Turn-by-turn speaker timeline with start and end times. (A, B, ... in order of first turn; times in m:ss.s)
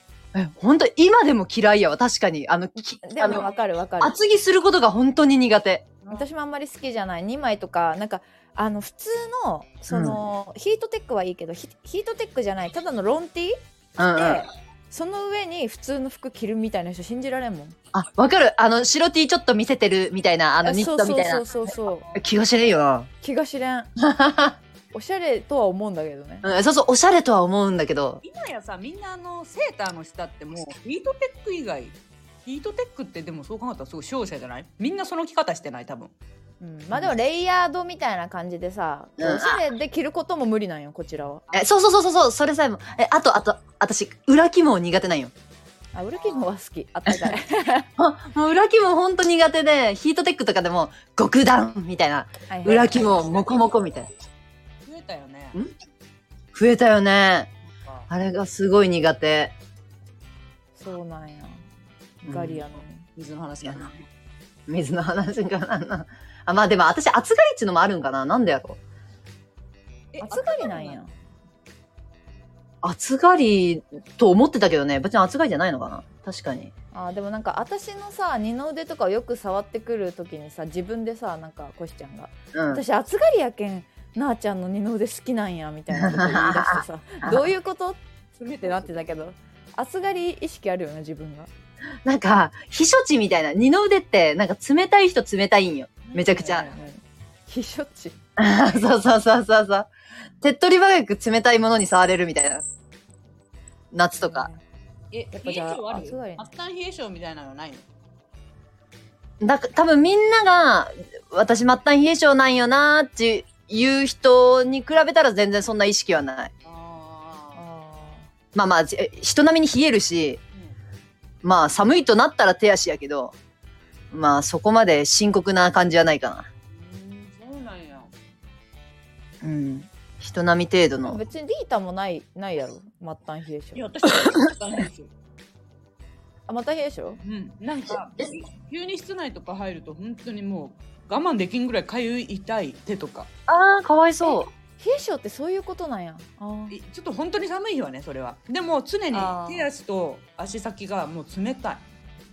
0:00.3-0:03.5 A
0:03.0-0:04.1 B
0:04.0-0:05.9 A
0:06.0-0:06.3 C
0:06.1-0:17.8 B
0:09.9-0:10.2 A
0:14.0-0:14.5 A
0:17.9-0:21.4 A
0:20.6-0:22.1 B
0:21.6-0:22.3 C
0:22.2-0:23.1 A
0:23.2-0:23.9 B
0:24.0-0:24.6 A
0:24.9-0:26.5 B
0:26.4-0:28.2 A
0:28.2-0:36.1 C
0:36.6-0:41.5 B
0:39.2-0:39.6 A
0:41.5-0:45.3 A
0:45.9-0:47.9 B
0:46.2-0:46.5 C
0:48.0-0:54.1 A
0:52.5-0:53.1 B
0:52.7-0:53.7 C
0:54.8-0:55.6 C
0:56.5-0:57.5 A
0:57.7-0:58.1 C
0:58.1-0:59.6 A
1:00.8-1:01.6 B
1:02.2-1:03.1 B
1:02.2-1:02.6 A
1:03.2-1:04.0 C
1:03.6-1:03.9 A
1:04.7-1:08.8 A
1:10.1-1:11.0 C
1:10.2-1:11.1 B
1:12.8-1:16.7 A
1:16.9-1:28.0 B
1:22.5-1:22.8 A
1:25.9-1:27.5 A
1:28.4-1:29.0 C
1:28.6-1:31.5 B
1:32.0-1:36.7 A
1:36.1-1:36.7 C
1:36.3-1:38.2 B
1:38.4-1:39.9 A
1:40.4-1:42.6 A
1:43.9-1:44.5 A
1:44.2-1:44.6 B
1:45.1-1:47.9 C
1:45.3-1:46.5 B
1:49.4-1:56.5 A
1:56.6-1:57.6 C
1:57.6-1:58.3 B
1:58.6-2:00.4 A
2:01.4-2:03.4 A
2:04.1-2:06.5 A
2:06.7-2:08.1 C
2:09.4-2:11.2 A
2:11.0-2:13.9 B
2:13.8-2:15.1 C
2:16.5-2:17.2 B
2:17.2-2:23.3 C
2:23.5-2:24.5 A
2:24.2-2:26.8 B
2:26.7-2:31.8 C
2:29.1-2:29.7 B